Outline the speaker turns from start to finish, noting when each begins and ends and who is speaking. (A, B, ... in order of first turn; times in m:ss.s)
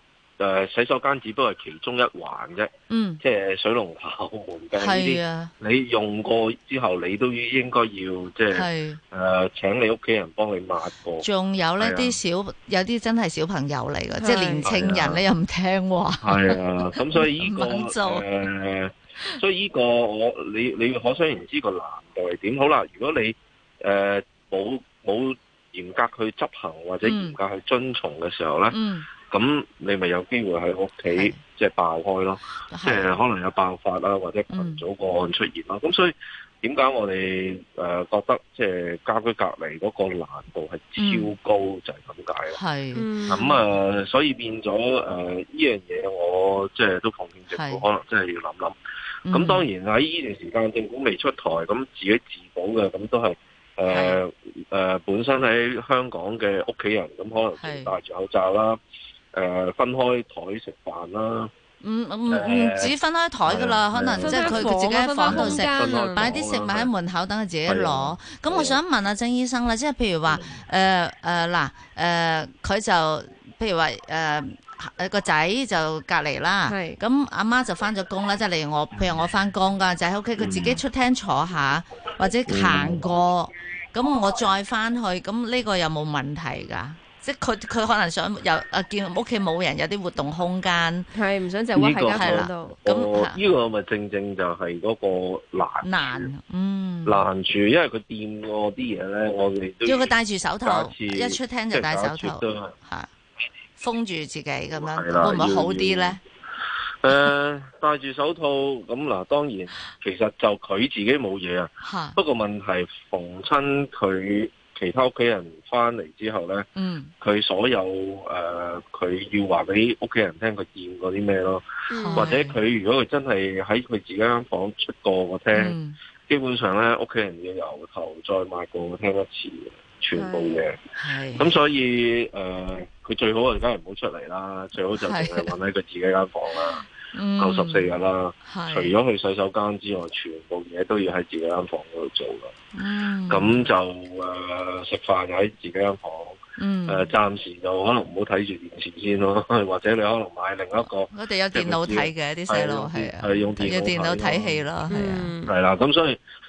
0:00.4-0:11.3 A
0:02.9-0:03.2 B
0:04.7-0:05.5 B
0:08.5-0:09.0 B
0:11.2-0:18.3 B
0:11.8-0:12.2 A
0:14.2-0:14.7 C
0:14.6-0:15.2 A
0:16.2-0:42.6 A
0:27.0-0:27.4 B
0:28.7-0:29.0 B
0:31.1-0:31.4 B
0:32.7-0:33.2 B
0:34.5-0:34.8 B
0:41.0-0:41.3 B
0:42.5-0:43.0 B
0:42.9-0:43.6 C
0:43.3-0:48.8 A
0:47.5-0:47.8 B
0:49.3-0:49.7 B
0:49.3-0:58.8 A
0:53.9-0:54.2 B
0:57.6-0:57.9 B
0:59.3-1:01.5 A
1:01.8-1:31.1 B
1:02.3-1:02.9 A
1:03.4-1:06.9 A
1:04.2-1:06.3 C
1:07.6-1:08.8 A
1:10.3-1:10.6 A
1:16.7-1:17.0 C
1:18.9-1:19.2 A
1:20.4-1:20.8 A
1:22.5-1:23.0 A
1:31.1-1:32.8 C
1:31.7-1:36.3 A
1:32.2-1:33.4 B
1:35.8-1:37.2 B
1:37.0-1:42.7 A
1:39.8-1:43.1 B
1:43.8-1:46.2 B
1:44.7-1:46.2 A
1:47.0-2:05.8 A
1:51.8-1:52.2 B
1:56.8-1:57.1 B
2:01.9-2:02.3 C
2:02.0-2:02.6 B
2:05.5-2:06.0 B
2:06.3-2:16.8 A
2:10.1-2:10.6 C
2:11.0-2:11.5 B
2:15.0-2:15.5 B
2:16.6-2:17.9 B
2:17.4-2:22.5 A
2:18.4-2:18.9 B
2:22.7-2:23.7 B
2:23.3-2:34.6 A
2:26.6-2:27.1 B
2:30.8-2:35.3 B
2:34.9-2:35.5 C
2:35.4-2:36.2 A